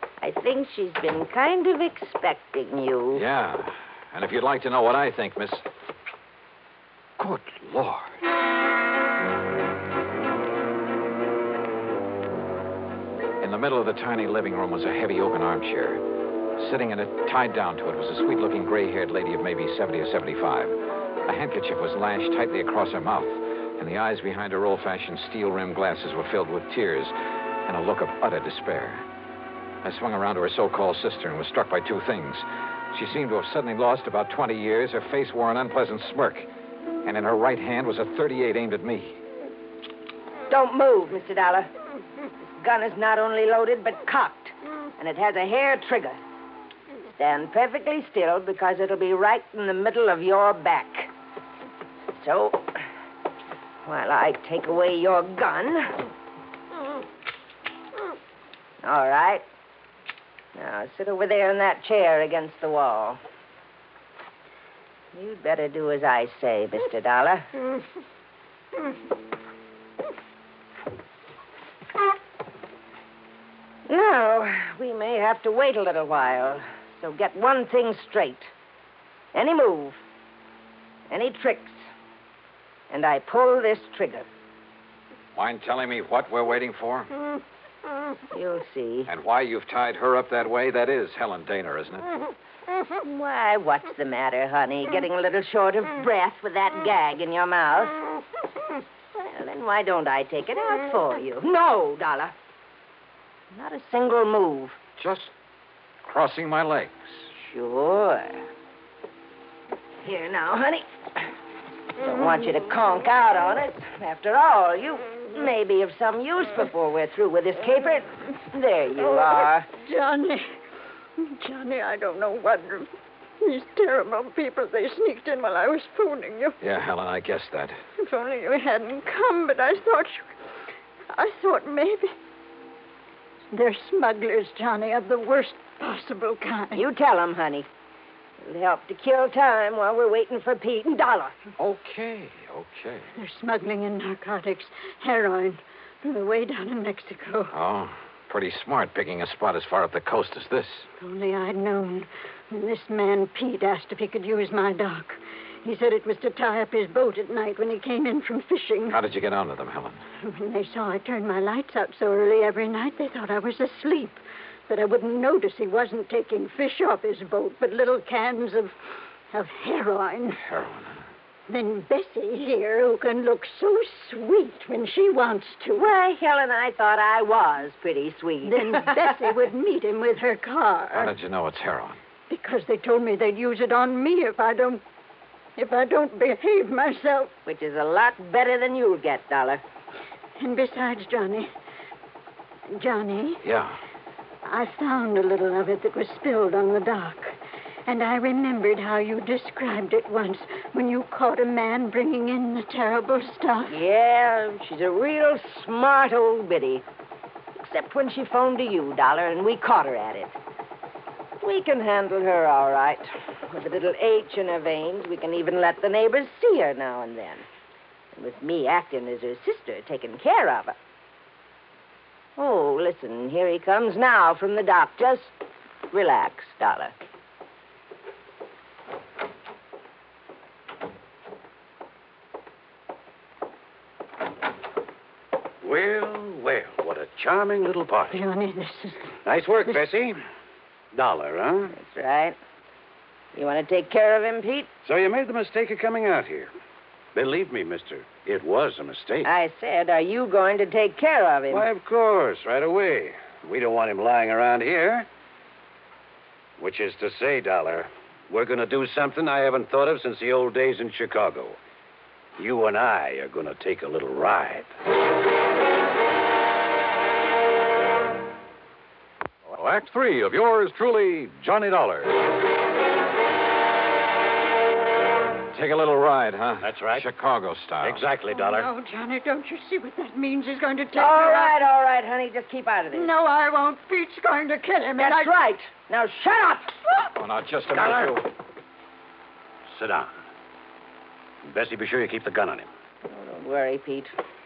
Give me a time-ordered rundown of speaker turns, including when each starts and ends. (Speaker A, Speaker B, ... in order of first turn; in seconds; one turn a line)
Speaker A: 0.2-3.2
Speaker B: 3.1-5.7
Speaker B: 7.2-8.2
Speaker B: 13.4-27.1
Speaker B: 27.7-29.0
Speaker B: 29.8-36.5
Speaker B: 37.0-39.2
Speaker A: 40.5-41.7
Speaker A: 42.4-46.2
Speaker A: 47.1-51.1
Speaker A: 52.2-52.7
Speaker A: 53.9-55.9
Speaker A: 58.8-59.4
Speaker A: 60.5-63.2
Speaker A: 65.1-67.5
Speaker A: 73.9-78.5
Speaker A: 79.3-80.0
Speaker A: 81.1-81.8
Speaker A: 82.9-84.3
Speaker B: 85.3-87.1
Speaker A: 88.3-89.1
Speaker B: 89.1-92.1
Speaker A: 93.0-98.0
Speaker A: 99.2-102.3
Speaker A: 103.5-104.8
Speaker B: 105.0-105.3
Speaker B: 106.0-107.3
Speaker A: 107.4-108.4
Speaker A: 110.0-110.8
Speaker A: 112.0-119.7
Speaker C: 119.8-120.5
Speaker C: 121.2-122.9
Speaker C: 123.4-126.6
Speaker B: 126.6-127.8
Speaker C: 128.0-130.3
Speaker C: 131.2-132.1
Speaker C: 133.5-136.8
Speaker A: 136.7-137.7
Speaker A: 138.4-141.3
Speaker B: 141.6-143.1
Speaker C: 143.2-147.6
Speaker B: 147.5-150.9
Speaker C: 151.0-159.0
Speaker B: 158.9-160.0
Speaker C: 160.2-168.7
Speaker C: 169.3-170.4
Speaker B: 170.4-171.0
Speaker C: 171.5-175.9
Speaker A: 175.8-179.1
Speaker C: 178.4-181.1
Speaker B: 180.9-182.0
Speaker C: 182.3-184.8
Speaker C: 185.6-187.3
Speaker A: 187.4-189.6
Speaker C: 190.4-191.5
Speaker C: 192.8-193.4
Speaker B: 193.4-193.8
Speaker C: 194.5-197.4
Speaker C: 197.9-203.8
Speaker A: 203.7-206.9
Speaker A: 207.6-210.4
Speaker A: 211.4-217.5
Speaker A: 218.1-220.8
Speaker A: 222.4-225.3
Speaker A: 225.9-226.9
Speaker D: 235.6-238.2
Speaker C: 238.1-239.1
Speaker D: 239.2-240.2
Speaker D: 240.9-241.7
Speaker A: 241.8-242.4
Speaker A: 243.3-244.7
Speaker D: 244.8-246.5
Speaker D: 247.2-249.3
Speaker A: 249.2-251.7
Speaker D: 251.5-255.1
Speaker D: 256.6-261.6
Speaker D: 262.4-264.7
Speaker E: 269.6-272.1
Speaker B: 275.5-278.0
Speaker D: 276.6-277.1
Speaker D: 277.8-278.7
Speaker C: 278.3-281.6
Speaker A: 280.9-283.1
Speaker C: 282.9-285.4
Speaker A: 285.0-286.9
Speaker B: 287.1-288.3
Speaker D: 289.7-290.1
Speaker D: 291.4-292.7
Speaker A: 293.1-294.1